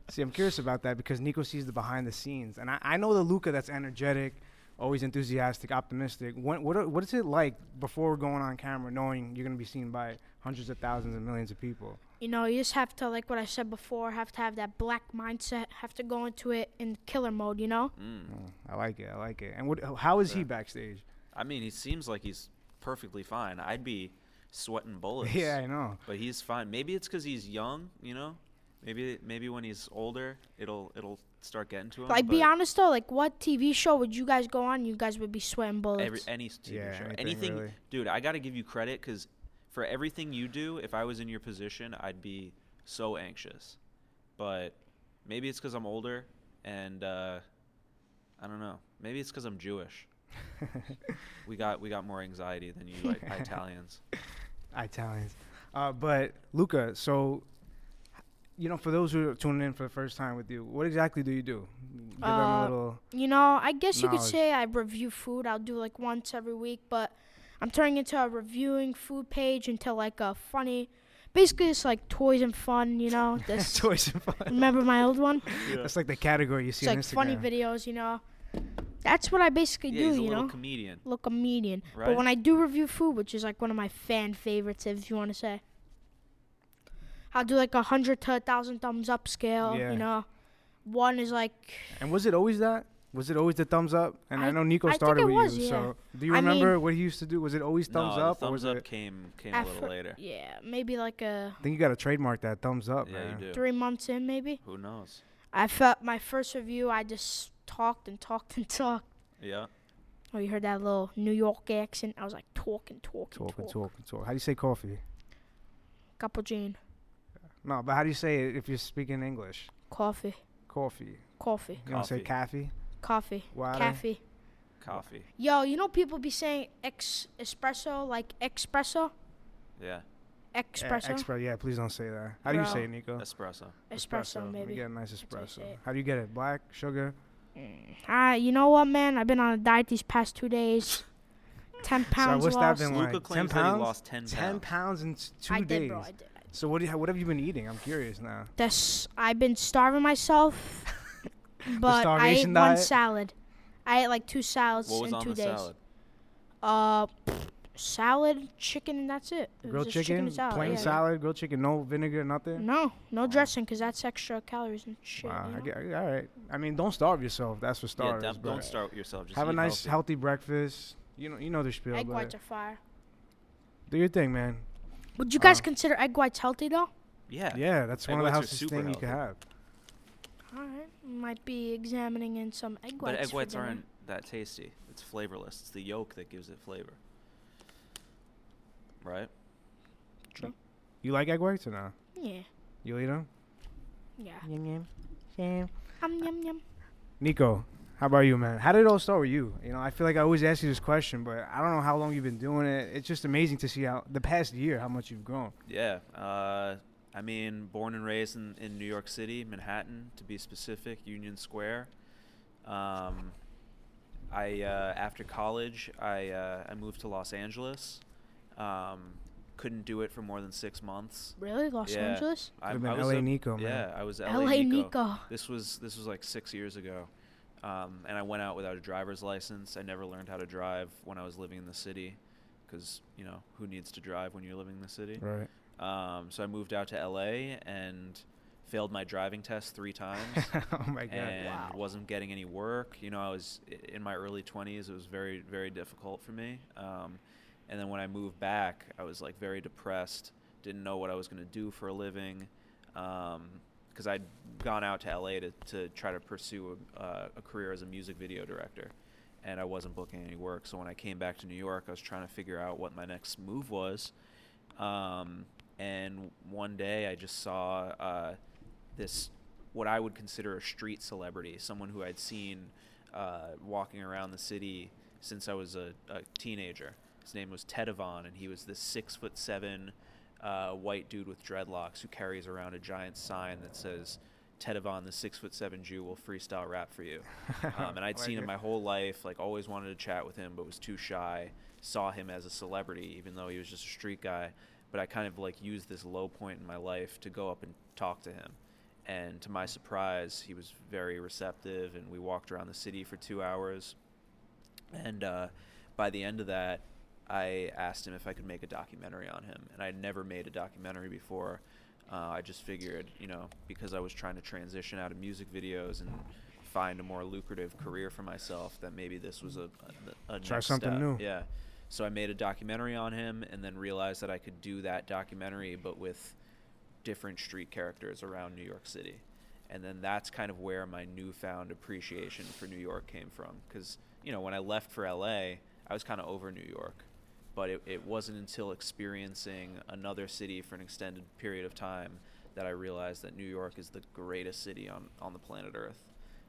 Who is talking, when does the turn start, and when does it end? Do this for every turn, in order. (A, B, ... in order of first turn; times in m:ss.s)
0:00.1-0:12.0 A
0:12.2-0:17.9 B
0:18.0-0:18.4 C
0:18.3-0:21.0 A
0:21.3-0:32.5 C
0:25.2-0:26.0 A
0:32.1-0:36.2 B
0:36.0-0:43.8 C
0:36.6-0:37.7 A
0:44.4-0:47.4 C
0:48.4-0:50.1 C
0:50.6-0:50.9 A
0:51.4-0:54.0 C
0:54.7-0:57.4 A
0:58.6-1:03.0 A
1:02.2-1:13.9 B
1:03.9-1:04.4 A
1:13.4-1:14.8 A
1:14.5-1:15.6 B
1:15.4-1:17.5 A
1:15.6-1:15.9 C
1:16.8-1:18.2 B
1:19.0-1:25.6 B
1:19.9-1:21.0 C
1:21.9-1:22.2 C
1:27.3-1:30.3 B
1:29.6-1:30.0 A
1:30.8-1:32.0 B
1:31.9-1:38.8 A
1:34.3-1:36.8 B
1:37.9-1:40.2 C
1:39.5-1:41.6 B
1:41.6-1:43.4 A
1:43.0-1:43.6 C
1:43.5-1:44.6 B
1:44.6-1:45.2 C
1:45.5-1:49.0 B
1:49.4-1:49.7 C
1:50.3-1:53.8 B
1:53.3-1:55.0 A
1:56.2-1:56.8 B
1:57.6-1:59.7 A
1:59.9-2:00.4 B
2:00.7-2:01.2 A
2:01.4-2:01.8 B
2:01.8-2:02.7 A
2:01.9-2:02.3 C
2:03.0-2:04.2 B
2:03.5-2:04.0 A
2:04.8-2:05.3 C
2:05.4-2:09.1 B
2:09.8-2:10.0 C
2:10.5-2:11.3 B
2:10.8-2:13.2 A
2:12.4-2:12.9 B
2:13.2-2:13.8 C
2:13.9-2:15.8 B
2:13.9-2:17.2 A
2:17.5-2:21.0 B
2:21.8-2:22.9 B
2:22.1-2:28.5 A
2:22.8-2:24.6 C
2:25.5-2:26.5 B
2:28.6-2:30.9 B
2:31.7-2:33.3 B
2:31.7-2:32.9 A
2:33.8-2:35.7 B
2:34.8-2:35.8 C
2:36.6-2:41.0 B
2:39.6-2:42.6 A
2:40.5-2:41.0 C
2:42.6-2:45.7 B
2:43.2-2:43.5 C
2:45.2-2:48.7 A
2:48.0-2:50.0 C
2:48.4-2:48.7 B
2:49.3-2:52.3 A
2:51.9-2:52.8 B
2:53.9-2:54.6 A
2:55.2-2:56.9 B
2:55.4-2:55.6 A
2:57.3-2:59.2 C
2:57.5-2:59.4 A
3:00.5-3:03.8 B
3:03.0-3:07.0 C
3:09.0-3:09.3 C
3:11.0-3:11.9 A
3:12.1-3:12.4 B
3:12.8-3:13.3 A
3:14.2-3:14.4 B
3:14.4-3:15.7 A
3:16.0-3:16.6 B
3:17.2-3:25.5 A
3:25.6-3:31.9 C
3:32.6-3:33.4 C
3:34.3-3:38.0 C
3:38.5-3:47.1 C
3:41.4-3:42.5 B
3:42.7-3:43.8 A
3:44.2-3:45.2 B
3:47.6-3:55.2 C
3:55.2-3:55.5 A
3:55.8-4:00.5 C
4:00.3-4:01.6 A
4:01.1-4:24.1 C
4:01.4-4:01.7 B
4:24.8-4:28.4 C
4:28.9-5:04.0 C
4:47.5-4:48.5 A
5:04.9-5:26.4 C
5:20.4-5:21.2 A
5:27.0-5:46.1 C